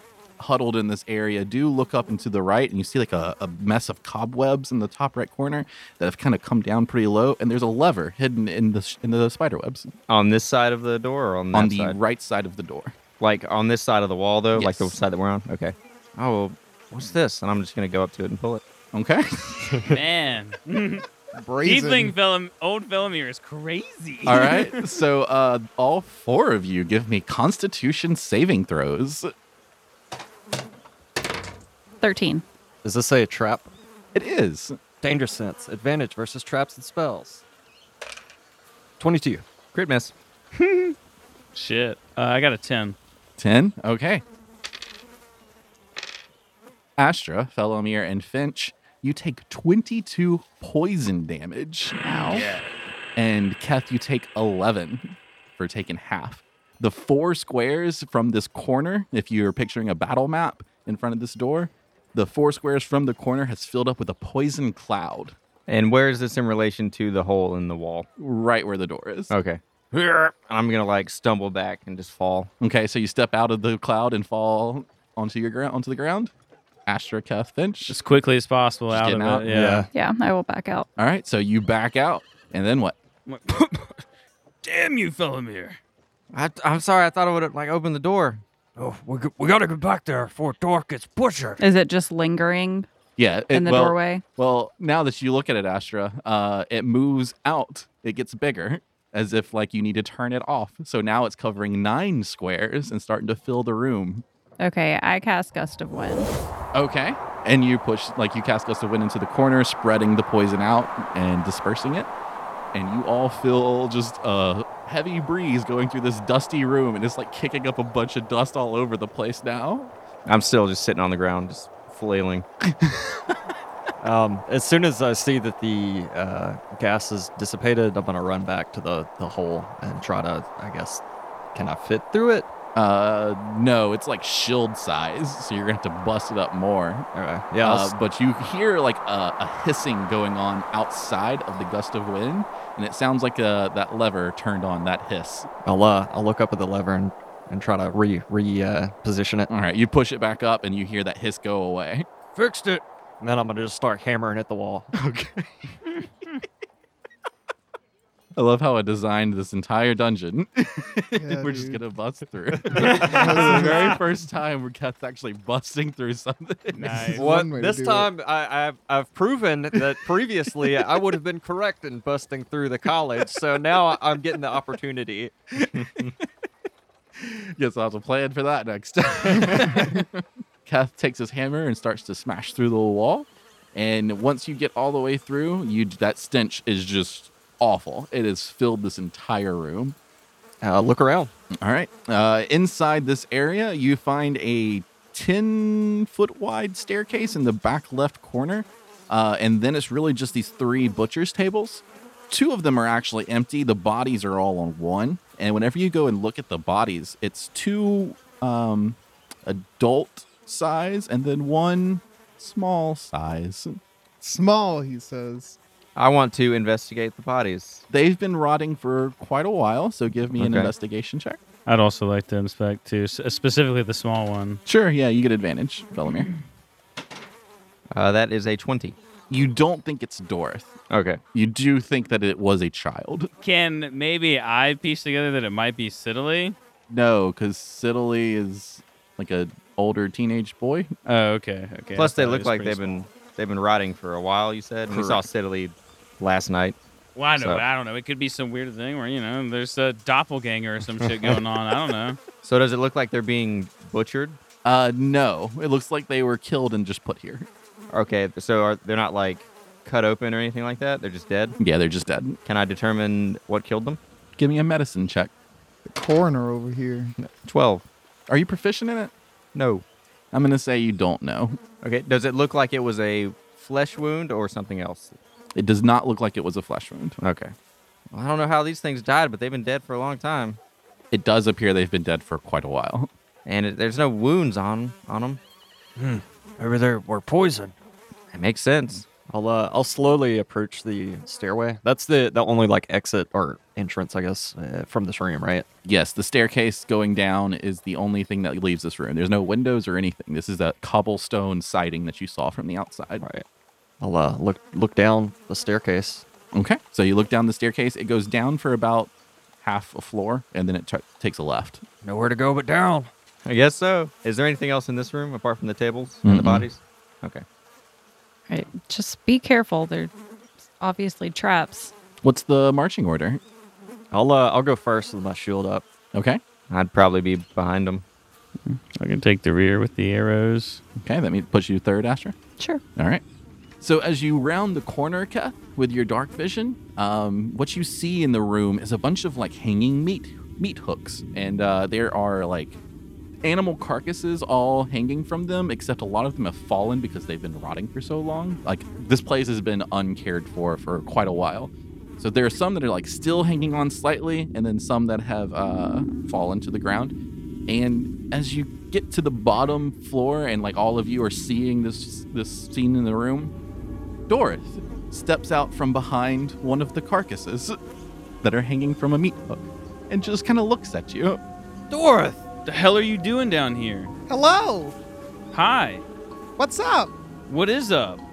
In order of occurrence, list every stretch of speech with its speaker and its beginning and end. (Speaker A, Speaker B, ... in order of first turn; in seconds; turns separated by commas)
Speaker A: 0.4-9.9, Speaker B: 10.1-12.0, Speaker A: 11.5-12.9, Speaker B: 13.2-18.6, Speaker A: 14.5-15.0, Speaker A: 18.9-20.0, Speaker C: 19.9-21.0, Speaker D: 21.3-22.1, Speaker C: 21.6-24.9, Speaker A: 24.2-29.3, Speaker E: 32.0-32.4, Speaker F: 32.8-33.7, Speaker A: 34.1-34.8, Speaker F: 35.0-37.4, Speaker F: 39.0-39.4, Speaker B: 39.7-40.1, Speaker C: 40.5-40.9, Speaker C: 41.5-43.0, Speaker A: 43.4-44.2, Speaker A: 47.0-52.5, Speaker E: 52.0-52.4, Speaker A: 53.1-65.3, Speaker B: 65.7-68.1, Speaker A: 68.2-69.3, Speaker B: 69.3-72.5, Speaker A: 72.6-76.3, Speaker A: 76.8-78.0, Speaker C: 77.9-79.8, Speaker A: 78.9-79.5, Speaker F: 79.5-79.9, Speaker E: 79.9-80.9, Speaker A: 81.0-83.0, Speaker C: 83.2-84.0, Speaker C: 84.6-85.8, Speaker B: 86.3-88.4, Speaker G: 88.8-91.6, Speaker E: 91.6-92.9, Speaker A: 93.2-104.2, Speaker E: 93.5-94.2, Speaker E: 104.6-106.3, Speaker A: 106.7-112.1, Speaker A: 112.7-119.9, Speaker B: 120.3-122.5, Speaker F: 124.0-131.0, Speaker F: 131.5-132.5, Speaker A: 132.7-137.1, Speaker F: 137.1-137.9, Speaker A: 137.6-145.5, Speaker F: 145.6-149.5, Speaker A: 149.5-152.1, Speaker G: 152.3-152.8, Speaker F: 153.2-154.9, Speaker A: 154.9-155.7, Speaker A: 158.3-167.2, Speaker D: 161.1-161.8, Speaker D: 162.7-163.9, Speaker C: 162.8-163.9, Speaker C: 166.8-167.2, Speaker D: 166.9-168.1, Speaker F: 167.2-175.3, Speaker A: 175.5-176.1, Speaker A: 177.1-189.9, Speaker F: 190.6-191.3, Speaker A: 191.5-213.8, Speaker D: 214.2-215.6, Speaker B: 215.9-217.8, Speaker A: 217.9-221.4, Speaker B: 220.4-220.7, Speaker C: 221.7-224.6, Speaker A: 224.7-226.3, Speaker B: 227.9-229.0, Speaker A: 229.3-230.7, Speaker B: 230.9-231.2, Speaker A: 231.3-233.3, Speaker C: 233.4-236.6, Speaker A: 236.9-240.9, Speaker C: 241.0-243.0, Speaker B: 241.9-246.8, Speaker C: 247.2-252.2, Speaker B: 247.4-247.6, Speaker B: 252.4-254.4, Speaker A: 254.6-257.5, Speaker B: 257.9-261.6, Speaker A: 261.6-262.4, Speaker B: 262.4-264.0, Speaker A: 264.4-265.3, Speaker D: 265.9-267.1, Speaker B: 267.2-267.8, Speaker A: 268.3-269.1, Speaker B: 269.5-269.8, Speaker A: 270.3-271.6, Speaker B: 271.8-275.2, Speaker A: 275.5-277.2, Speaker B: 277.2-277.5, Speaker B: 278.1-280.6, Speaker A: 281.1-283.1, Speaker B: 283.4-285.4, Speaker G: 286.0-287.7, Speaker B: 288.3-289.0, Speaker F: 289.3-295.6, Speaker A: 295.8-303.2, Speaker F: 304.0-306.2, Speaker A: 306.5-309.1, Speaker A: 309.6-311.8, Speaker G: 312.0-313.1, Speaker B: 313.4-317.4, Speaker A: 316.2-316.7, Speaker E: 318.5-321.9, Speaker A: 322.2-323.4, Speaker F: 324.1-325.8, Speaker A: 326.1-326.4, Speaker B: 326.7-328.0, Speaker C: 328.6-330.8, Speaker A: 331.0-332.4, Speaker A: 333.0-333.2, Speaker A: 333.8-342.8, Speaker A: 343.4-357.1, Speaker A: 357.7-363.5, Speaker A: 364.3-367.8, Speaker A: 368.4-371.4, Speaker G: 371.9-372.4, Speaker C: 372.6-374.1, Speaker D: 374.3-374.9, Speaker C: 375.5-376.0, Speaker D: 376.6-377.1, Speaker C: 377.5-378.2